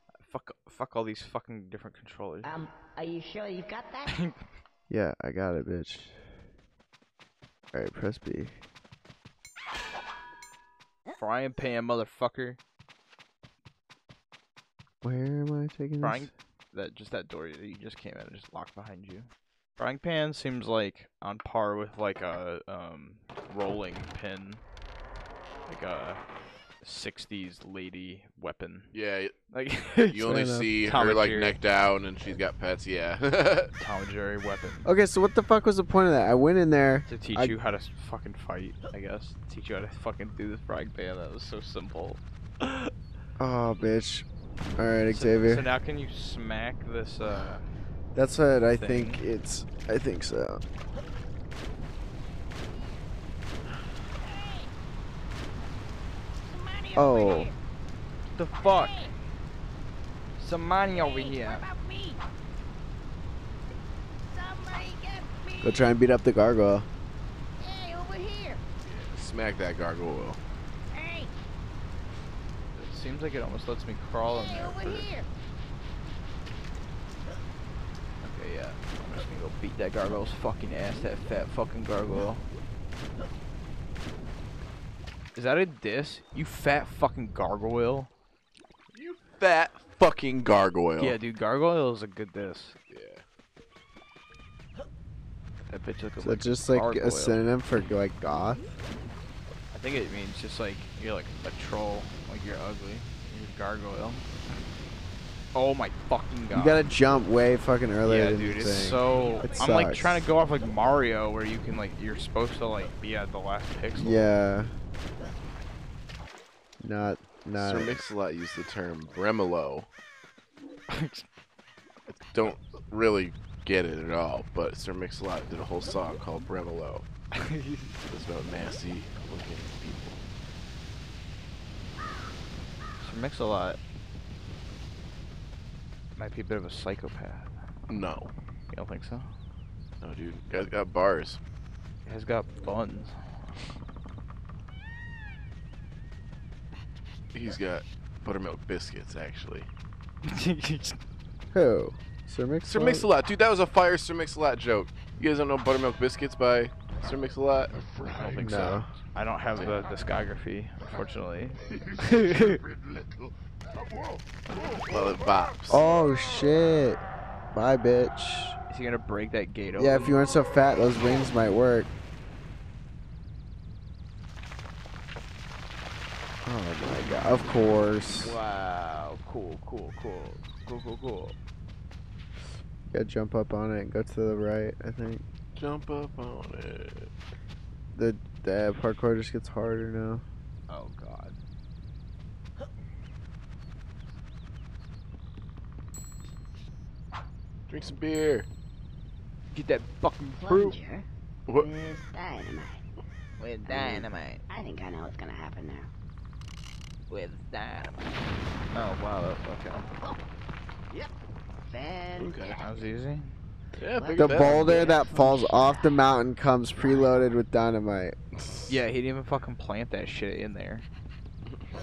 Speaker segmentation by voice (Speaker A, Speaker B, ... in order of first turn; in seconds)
Speaker A: 0.2-2.5, 4.1-4.4, 11.2-12.6, 16.0-24.6, 25.7-26.2, 26.8-28.9, 29.5-30.3, 30.8-31.6, 33.8-34.9, 37.1-42.9, 45.1-47.6, 48.7-49.2, 58.4-59.0, 60.4-61.6, 72.8-75.1, 78.2-82.4, 85.3-88.1, 91.0-92.8, 95.7-97.4, 99.7-104.2, 105.5-106.9, 108.1-114.3, 120.9-121.2, 127.3-127.9, 133.0-133.8, 136.2-137.6, 138.7-139.3, 142.1-143.2, 150.3-151.0, 158.2-162.6, 168.7-170.2, 178.2-181.4, 190.7-191.4, 199.5-200.8, 203.4-204.4, 207.1-208.0, 208.7-209.9, 212.6-213.3, 218.7-220.9
Speaker B: 2.4-4.2, 52.7-53.0, 54.2-54.7, 56.4-57.5, 58.6-59.1, 60.9-62.2, 64.3-65.8, 67.6-68.6, 70.9-71.3, 74.2-75.3, 109.0-109.7, 200.4-202.8, 203.7-205.9, 211.7-212.7, 213.9-216.0
Speaker C: 4.9-6.2, 7.7-8.5, 15.0-16.3, 30.2-30.8, 34.9-37.6, 43.4-45.7, 48.1-50.6, 57.0-57.5, 65.6-66.9, 96.2-98.8, 106.5-110.2, 114.0-114.7, 116.8-118.0, 151.5-153.1, 158.4-158.9, 165.7-167.0, 167.5-168.6, 169.8-171.9, 176.4-178.4, 182.9-185.2, 187.9-190.2, 214.2-218.2
Speaker D: 28.9-29.4, 30.1-33.7, 68.8-70.4, 88.9-91.2, 92.9-93.2, 117.6-119.9, 122.1-127.1, 128.1-130.2, 137.9-138.3, 140.0-141.4, 147.3-149.7, 152.7-157.7, 159.6-159.8, 164.9-165.8, 185.6-187.1, 197.7-198.5, 212.2-212.6, 213.8-214.9, 218.4-218.7
Speaker E: 157.7-158.8, 161.6-165.2